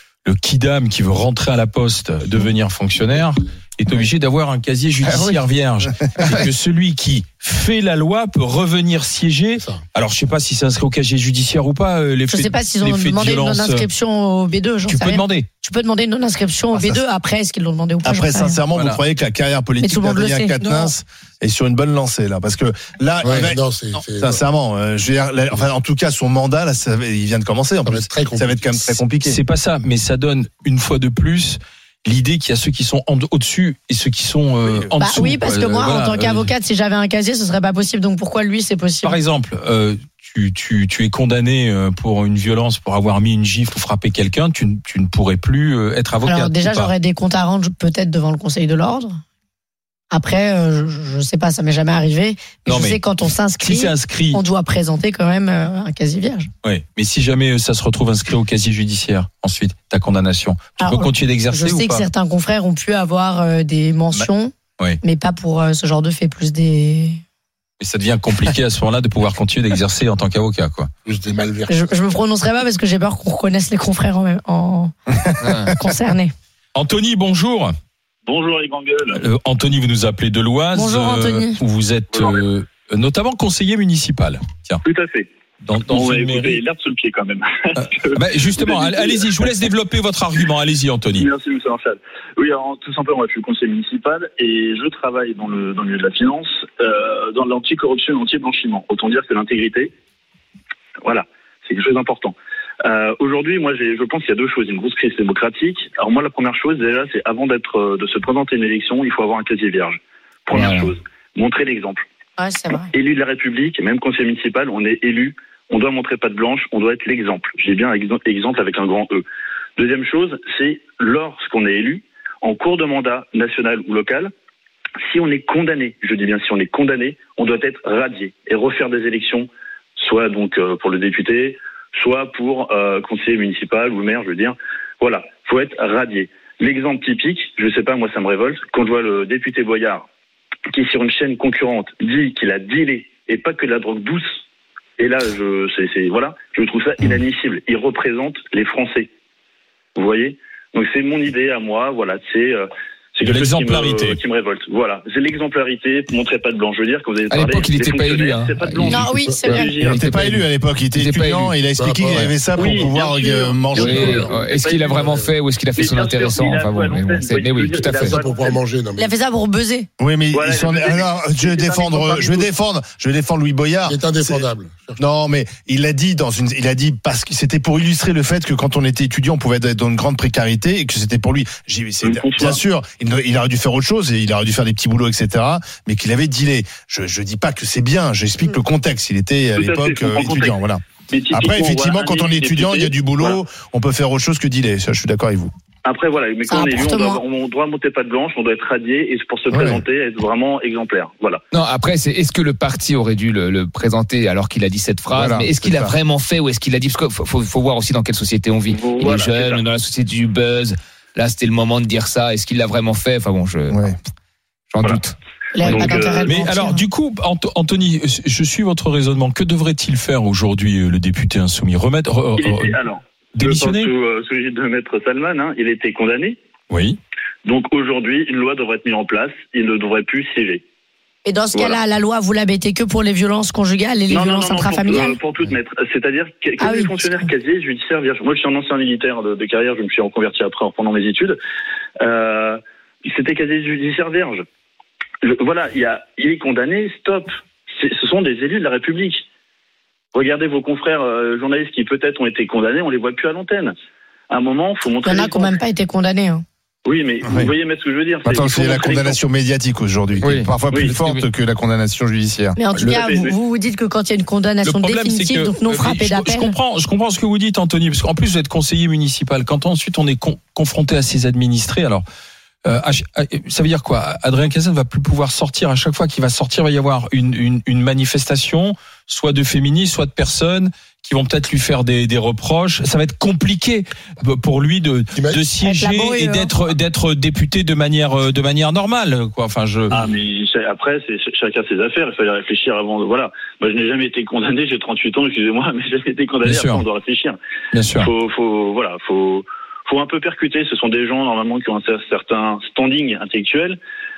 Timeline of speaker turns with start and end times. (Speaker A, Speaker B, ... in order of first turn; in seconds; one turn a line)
Speaker A: 0.2-13.9
Speaker B: 5.0-5.4
Speaker C: 12.3-18.6
Speaker A: 14.9-15.5
Speaker D: 16.7-17.0
Speaker D: 18.0-23.6
Speaker A: 18.7-19.0
Speaker C: 19.8-20.9
Speaker E: 23.2-24.4
Speaker D: 24.2-29.4
Speaker E: 27.9-28.9
Speaker A: 29.2-36.5
Speaker D: 34.7-34.9
Speaker C: 35.0-39.2
Speaker A: 39.0-46.9
Speaker C: 46.2-49.2
Speaker C: 50.1-56.5
Speaker A: 52.7-53.0
Speaker A: 53.6-54.4
Speaker A: 56.6-62.1
Speaker C: 60.8-67.2
Speaker A: 64.1-65.0
Speaker A: 67.8-70.9
Speaker E: 71.1-71.7
Speaker C: 71.7-74.9
Speaker D: 75.3-75.7
Speaker B: 75.4-75.7
Speaker C: 75.8-76.3
Speaker A: 76.8-77.7
Speaker F: 78.3-79.2
Speaker A: 79.1-84.8
Speaker C: 80.7-81.6
Speaker F: 84.8-85.3
Speaker A: 85.6-86.6
Speaker F: 85.9-89.5
Speaker A: 87.8-91.3
Speaker F: 91.1-99.9
Speaker F: 101.0-112.0
Speaker B: 110.5-110.9
Speaker C: 112.4-112.9
Speaker F: 112.9-119.2
Speaker F: 119.8-124.3
Speaker F: 125.1-140.1
Speaker F: 140.7-144.2
Speaker F: 145.0-149.1
Speaker F: 150.0-160.1
Speaker A: 153.2-154.2
Speaker B: 157.3-160.4
Speaker C: 158.8-159.8
Speaker D: 159.8-164.3
Speaker B: 160.9-161.6
Speaker E: 161.8-162.6
Speaker F: 162.6-165.2
Speaker B: 163.7-168.2
Speaker E: 164.9-165.3
Speaker F: 165.8-168.6
Speaker E: 168.1-169.1
Speaker C: 169.0-169.9
Speaker D: 170.0-174.4
Speaker F: 170.3-172.5
Speaker E: 173.9-175.0
Speaker D: 175.0-195.5
Speaker F: 182.0-182.6
Speaker F: 189.6-190.6
Speaker F: 191.1-193.4
Speaker F: 195.8-201.4
Speaker C: 196.5-197.2
Speaker D: 199.5-199.8
Speaker B: 201.5-213.8
Speaker D: 205.1-205.9
Speaker F: 208.7-209.7
Speaker D: 213.7-214.0
Speaker B: 214.7-215.8
Speaker C: 215.5-216.8
Speaker F: 215.7-216.2
Speaker A: 216.2-222.8
Speaker F: 222.4-226.4
Speaker A: 223.3-223.9
Speaker A: 226.7-227.0
Speaker F: 227.5-230.6
Speaker C: 231.2-235.2
Speaker F: 231.5-231.8
Speaker F: 234.1-241.4
Speaker C: 236.6-237.3
Speaker F: 242.0-242.6
Speaker F: 243.1-244.4
Speaker F: 245.2-249.2
Speaker F: 250.1-253.7
Speaker F: 254.3-255.6
Speaker C: 255.0-256.4
Speaker F: 256.9-259.2
Speaker D: 257.2-257.5
Speaker D: 258.2-262.6
Speaker B: 260.2-261.2
Speaker F: 260.7-261.0
Speaker C: 262.6-266.6
Speaker F: 262.8-263.4
Speaker A: 264.6-272.0
Speaker A: 272.6-290.0
Speaker E: 285.1-285.4
Speaker C: 285.6-286.5
Speaker F: 289.9-297.4
Speaker A: 296.4-296.9
Speaker A: 297.7-298.1
Speaker F: 298.0-303.8